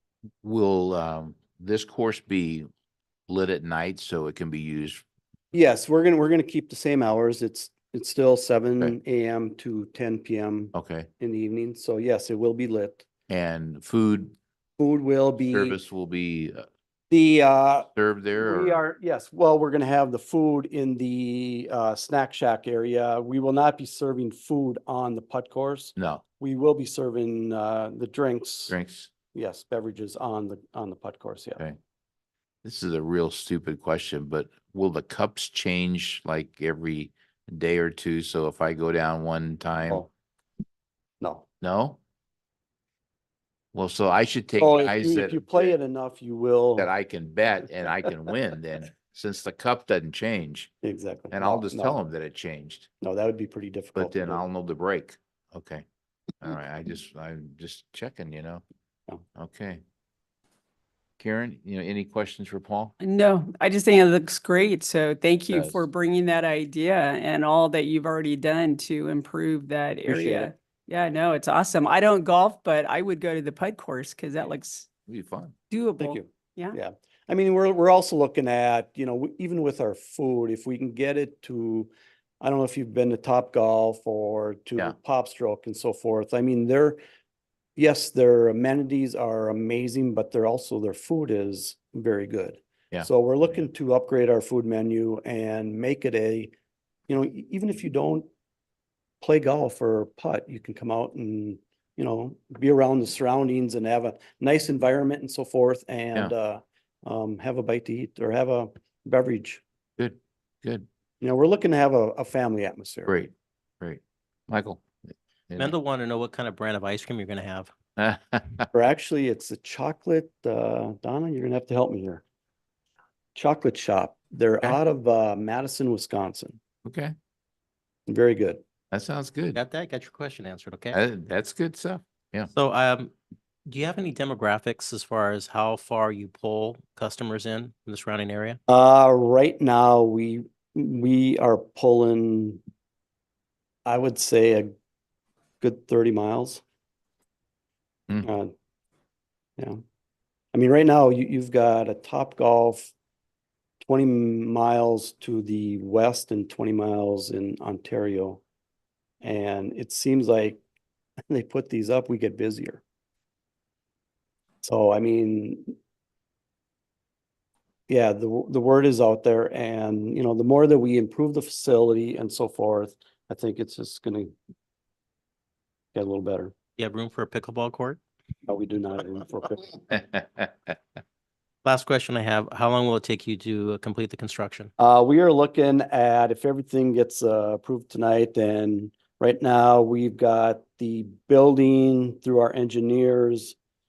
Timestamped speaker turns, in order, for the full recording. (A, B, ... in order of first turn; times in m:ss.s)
0:00.4-0:02.7 A
0:03.3-0:05.0 A
0:05.5-0:13.0 B
0:10.7-0:11.1 A
0:13.3-0:14.3 A
0:14.8-0:15.8 B
0:15.5-0:16.7 A
0:17.1-0:28.8 B
0:18.0-0:18.8 A
0:26.0-0:26.2 A
0:28.7-0:29.1 A
0:29.3-0:31.6 B
0:32.6-0:40.0 A
0:41.6-0:42.0 A
0:43.7-0:45.6 A
0:44.6-0:46.9 B
0:46.8-0:50.7 A
0:50.8-0:52.0 B
0:51.3-0:52.9 A
0:53.0-0:54.4 B
0:54.0-0:55.8 A
0:56.4-0:58.6 A
0:59.4-0:59.8 A
1:01.2-1:03.0 A
1:03.0-1:14.9 C
1:05.5-1:05.8 A
1:10.1-1:10.5 B
1:15.1-1:15.5 A
1:15.7-1:16.8 C
1:16.0-1:27.0 B
1:27.8-1:36.5 B
1:37.1-1:38.3 B
1:39.2-1:49.6 B
1:50.0-1:50.9 A
1:51.2-1:53.2 B
1:53.1-1:55.7 A
1:55.6-1:57.7 D
1:58.0-1:58.6 A
1:58.7-2:02.2 B
2:03.4-2:06.6 B
2:06.8-2:07.1 A
2:08.1-2:08.6 B
2:08.9-2:09.6 A
2:09.6-2:11.0 D
2:10.9-2:12.5 A
2:12.5-2:13.1 D
2:13.7-2:18.6 D
2:18.7-2:22.6 B
2:23.9-2:24.7 B
2:25.6-2:26.6 B
2:28.2-2:28.5 B
2:30.5-2:32.9 B
2:33.8-2:38.4 B
2:39.2-2:40.6 B
2:41.3-2:42.8 B
2:44.6-2:45.8 B
2:47.9-2:54.4 B
2:55.9-2:56.5 B
2:56.8-2:58.0 D
2:58.5-2:59.9 B
3:01.6-3:04.7 D
3:04.8-3:13.6 B